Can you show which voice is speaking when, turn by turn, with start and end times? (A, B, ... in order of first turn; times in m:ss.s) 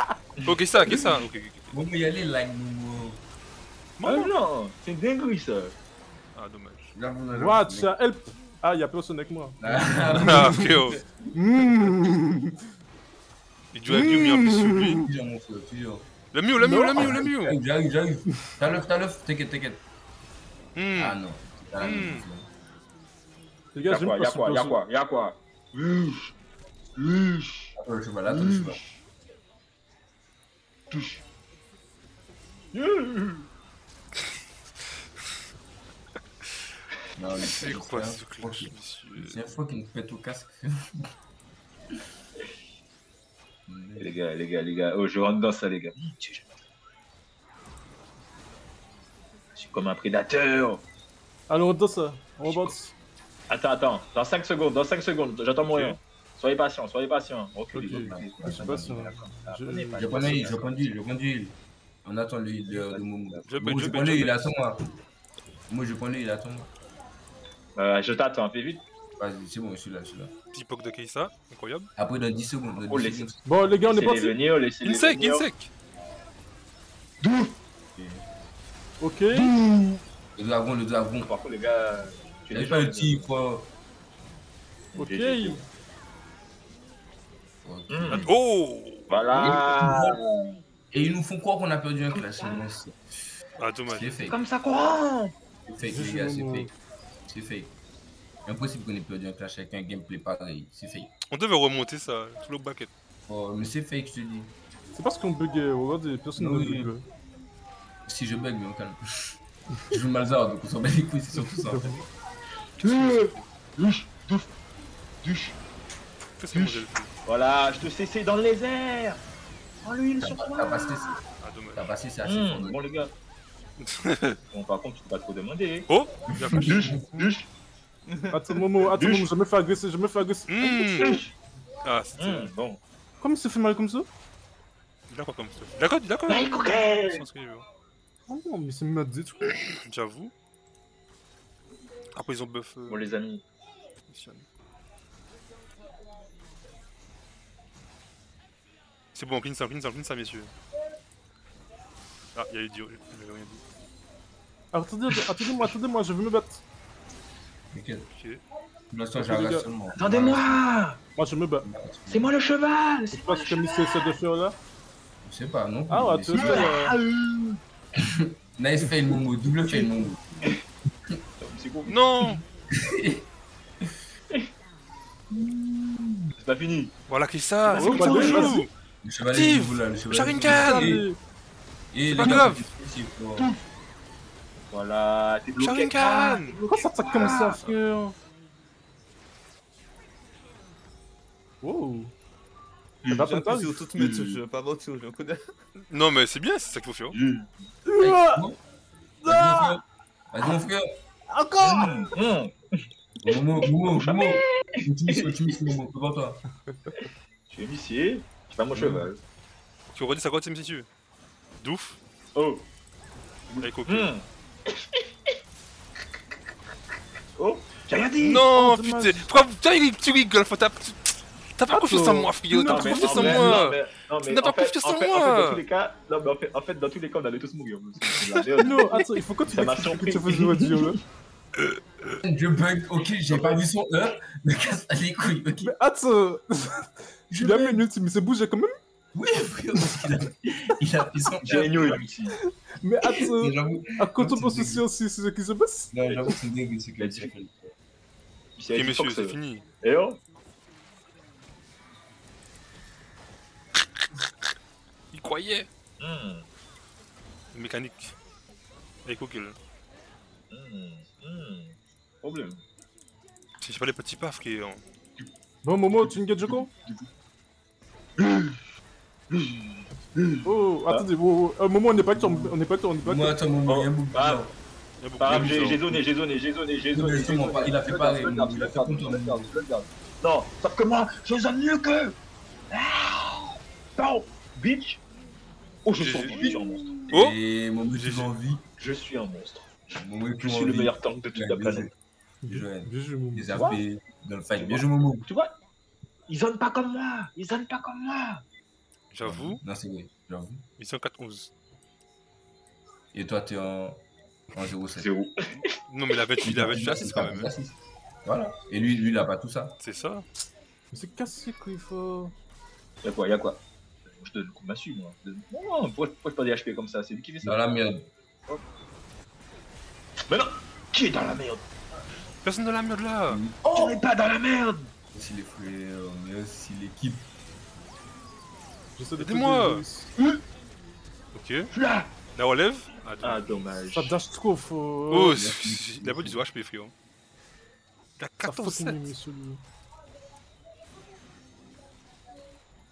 0:00.5-0:01.7 A
0:01.7-0:03.2 B
0:04.0-0:04.3 A
0:04.0-0:05.8 C
0:06.4-0:06.9 A
0:07.0-0:07.9 B
0:07.4-0:10.6 D
0:09.6-0:11.3 B
0:10.2-0:11.0 A
0:11.3-0:12.6 D
0:13.7-0:15.0 A
0:13.9-0:15.1 D
0:14.8-0:16.1 B
0:16.3-0:17.6 A
0:16.6-0:17.2 D
0:17.0-0:19.8 B
0:20.8-0:21.2 A
0:21.0-0:22.5 B
0:21.8-0:22.3 A
0:23.7-0:24.8 D
0:23.9-0:26.3 C
0:27.0-0:27.8 C
0:27.8-0:28.8 B
0:28.3-0:28.8 C
0:30.9-0:31.2 C
0:32.7-0:33.5 C
0:37.2-0:41.1 B
0:37.4-0:39.4 A
0:43.7-0:44.2 B
0:44.0-0:46.6 C
0:49.5-0:50.8 C
0:51.5-0:52.9 D
0:53.5-1:00.8 C
0:55.7-0:56.0 A
0:57.7-1:00.4 D
0:57.8-0:59.1 B
1:00.0-1:04.8 B
1:02.7-1:03.5 C
1:03.5-1:04.5 A
1:05.7-1:06.7 B
1:07.8-1:08.8 C
1:09.2-1:10.3 B
1:10.5-1:11.9 A
1:12.0-1:13.4 B
1:12.8-1:15.5 C
1:13.4-1:14.4 D
1:14.8-1:15.7 A
1:17.2-1:17.6 C
1:18.0-1:18.2 B
1:19.0-1:19.5 D
1:19.4-1:20.0 C
1:20.4-1:21.3 B
1:21.2-1:23.3 C
1:22.5-1:23.7 B
1:24.9-1:25.6 C
1:25.0-1:25.6 D
1:27.6-1:28.3 B
1:27.9-1:28.2 C
1:28.1-1:29.1 A
1:29.1-1:30.6 C
1:29.3-1:30.2 B
1:30.9-1:32.9 B
1:32.1-1:32.6 C
1:33.6-1:34.3 A
1:33.9-1:34.4 B
1:34.3-1:35.3 C
1:35.7-1:36.7 B
1:35.9-1:36.7 D
1:37.3-1:37.8 B
1:38.5-1:41.1 B
1:41.3-1:42.9 A
1:43.3-1:44.5 B
1:44.9-1:47.0 D
1:46.4-1:46.9 B
1:48.1-1:49.4 B
1:49.9-1:52.0 B
1:51.3-1:52.1 D
1:52.8-1:53.5 A
1:52.8-1:54.5 C
1:55.2-1:55.6 C
1:56.4-1:57.1 A
1:56.5-1:59.2 C
1:59.8-2:01.2 C
2:00.2-2:01.2 B
2:01.4-2:01.9 A
2:01.8-2:02.8 B
2:02.2-2:03.1 C
2:03.8-2:04.4 A
2:04.5-2:05.9 C
2:05.9-2:07.0 A
2:06.4-2:07.1 B
2:06.6-2:07.5 C
2:08.1-2:08.6 E
2:08.3-2:11.1 D
2:08.9-2:09.3 C
2:10.5-2:11.2 A
2:11.0-2:11.3 C
2:11.8-2:12.5 A
2:12.2-2:12.8 C
2:13.2-2:14.1 D
2:15.1-2:17.7 A
2:16.3-2:17.2 C
2:18.3-2:19.6 D
2:19.5-2:20.3 A
2:22.1-2:23.1 A
2:22.9-2:23.4 C
2:24.1-2:24.5 A
2:29.2-2:30.5 A
2:32.4-2:33.6 A
2:34.7-2:36.6 D
2:37.7-2:38.1 B
2:38.1-2:38.4 A
2:38.9-2:40.6 B
2:39.2-2:39.7 D
2:39.9-2:41.0 C
2:41.2-2:41.7 D
2:41.6-2:42.3 B
2:42.1-2:44.1 C
2:43.1-2:44.6 D
2:45.2-2:46.7 B
2:45.9-2:47.0 D
2:46.3-2:47.6 C
2:48.0-2:50.4 B
2:51.4-2:52.4 C
2:51.9-2:52.4 A
2:52.7-2:53.3 B
2:56.4-2:57.0 C
2:57.1-2:58.7 A
2:57.6-2:58.6 C
2:57.8-2:58.6 D
2:59.0-3:01.0 B
2:59.3-3:01.0 A
3:00.4-3:01.2 D
3:01.9-3:03.5 B
3:02.1-3:02.7 A
3:03.4-3:03.6 C
3:04.7-3:07.6 C
3:05.6-3:06.6 A
3:06.7-3:08.2 D
3:07.2-3:07.7 A
3:11.6-3:12.1 D
3:13.0-3:13.3 C
3:13.1-3:15.6 E
3:13.1-3:13.8 D
3:14.0-3:14.4 C
3:15.9-3:17.2 A
3:17.1-3:17.5 C
3:17.9-3:18.4 D
3:18.0-3:18.6 B
3:19.2-3:19.8 D
3:19.2-3:20.9 B
3:21.3-3:22.1 D
3:21.6-3:22.7 C
3:23.2-3:26.4 B
3:24.0-3:25.3 C
3:27.0-3:29.2 C
3:28.7-3:29.1 B
3:29.9-3:30.9 A
3:31.6-3:32.0 A
3:32.4-3:32.7 C
3:33.5-3:35.0 C
3:33.6-3:34.1 A
3:37.4-3:38.5 C
3:38.2-3:45.6 A
3:38.5-3:39.4 D
3:41.7-3:43.6 D
3:42.6-3:48.9 C
3:48.2-3:48.7 A
3:48.6-3:51.0 D
3:49.5-3:50.9 C
3:52.2-3:55.7 B
3:53.3-3:53.6 C
3:55.6-3:58.7 D
3:57.3-3:57.8 B
3:59.1-4:02.0 B
4:01.4-4:02.4 C
4:02.7-4:06.0 D
4:03.1-4:04.9 B
4:05.9-4:07.7 B
4:07.0-4:07.3 C
4:08.6-4:10.2 C
4:08.7-4:09.6 A
4:15.1-4:15.7 A
4:16.0-4:16.5 C
4:17.5-4:18.2 A
4:19.0-4:19.6 A
4:20.5-4:22.6 C
4:23.6-4:24.8 A
4:25.6-4:26.7 D
4:26.0-4:27.1 C
4:28.2-4:28.6 C
4:29.3-4:31.1 C
4:30.4-4:33.5 D
4:32.0-4:34.5 B
4:33.7-4:34.5 C
4:35.0-4:35.8 A
4:35.2-4:42.2 C
4:35.3-4:36.0 B
4:36.9-4:39.5 B
4:37.2-4:37.6 D
4:42.7-4:45.0 C
4:45.8-4:47.1 C
4:46.0-4:46.5 A
4:46.3-4:48.6 B
4:47.1-4:47.4 A
4:48.0-4:48.3 A
4:48.8-4:49.8 C
4:50.0-4:51.9 B
4:50.4-4:51.9 C
4:52.4-4:53.6 D
4:52.5-4:55.3 B
4:53.5-4:53.8 C
4:54.5-4:55.5 C
4:56.3-4:58.4 C
4:59.1-4:59.6 A
4:59.2-5:00.6 B
5:00.8-5:01.5 A
5:03.1-5:05.1 B
5:05.0-5:05.3 C
5:05.9-5:07.5 A
5:06.4-5:09.8 B
5:09.8-5:10.3 A
5:10.9-5:12.3 D
5:13.0-5:17.6 C
5:17.4-5:18.1 B
5:20.3-5:21.7 C
5:22.4-5:23.4 A
5:23.3-5:24.0 B
5:23.7-5:24.9 C
5:25.1-5:27.3 B
5:29.0-5:30.1 D
5:29.2-5:29.8 A
5:31.3-5:31.7 A
5:31.7-5:32.1 C
5:32.4-5:33.7 A
5:33.2-5:34.2 C
5:33.9-5:35.4 D
5:35.1-5:36.9 A
5:35.3-5:36.4 B
5:38.2-5:39.1 A
5:38.4-5:39.6 D